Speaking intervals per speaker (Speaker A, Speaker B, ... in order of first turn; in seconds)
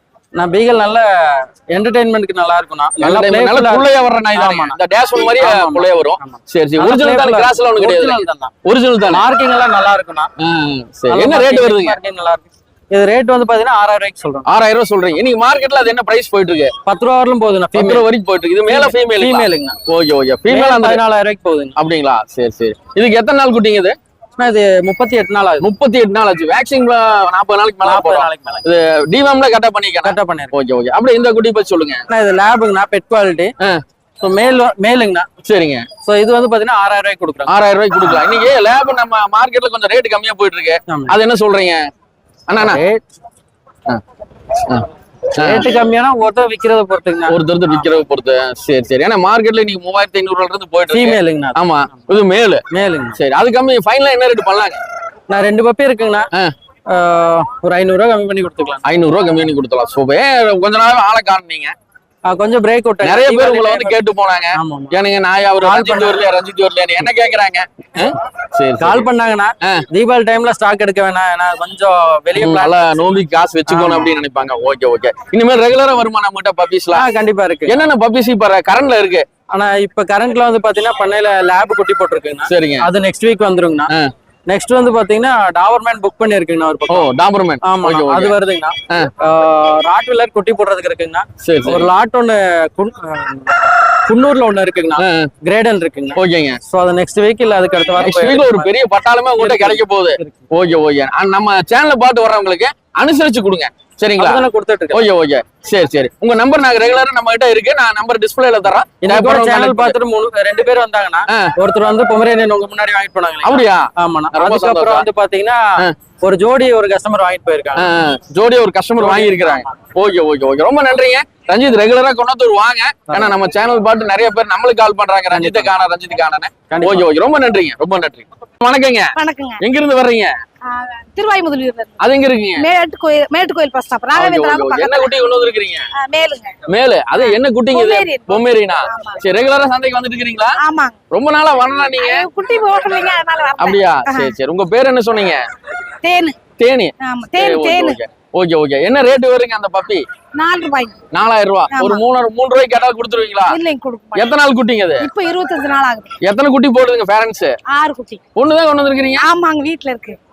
Speaker A: 0.3-8.5, 9.1-10.3, 11.1-14.5, 16.9-18.0, 18.7-19.8, 20.5-21.8, 24.4-25.6, 27.8-28.6, 30.0-30.5, 32.1-33.5, 34.2-35.3, 36.0-37.5, 40.9-41.1, 42.6-43.0, 45.4-47.9, 50.9-51.6, 52.7-53.2, 55.3-56.3, 56.9-58.8, 62.2-64.0, 64.5-64.9, 65.6-66.2, 68.8-73.0, 73.7-74.2, 76.9-77.8, 79.5-83.9, 84.5-87.1, 87.6-98.7, 99.4-100.4, 104.2-105.1, 109.0-117.9, 119.0-119.7, 123.1-123.4, 125.3-125.7, 126.7-127.1
Speaker B: 3.0-9.3, 10.4-12.0, 14.4-16.7, 17.7-21.0, 21.8-24.0, 25.6-32.0, 35.4-35.9, 37.5-41.8, 42.5-42.8, 44.6-45.7, 47.3-52.6, 53.1-54.8, 58.8-61.7, 63.0-69.0, 72.3-77.0, 77.7-79.2, 82.5-82.9, 86.9-88.3, 91.4-91.9, 95.0-95.3, 96.1-96.6, 98.0-110.0, 111.3-111.5, 113.4-115.0, 117.8-130.3, 132.0-132.7, 134.1-135.9, 136.7-140.6, 141.1-142.3, 143.6-145.4, 146.6-150.0, 151.1-153.6, 154.1-155.1, 156.2-157.6, 158.3-159.3
Speaker C: 129.2-129.6, 130.6-132.0, 132.6-135.3, 135.9-136.6, 137.1-139.2, 140.6-141.0, 141.9-144.3, 146.0-146.4, 147.0-148.0, 150.3-151.0, 151.7-152.0, 153.5-154.3, 155.0-156.2, 157.7-158.2, 159.2-160.2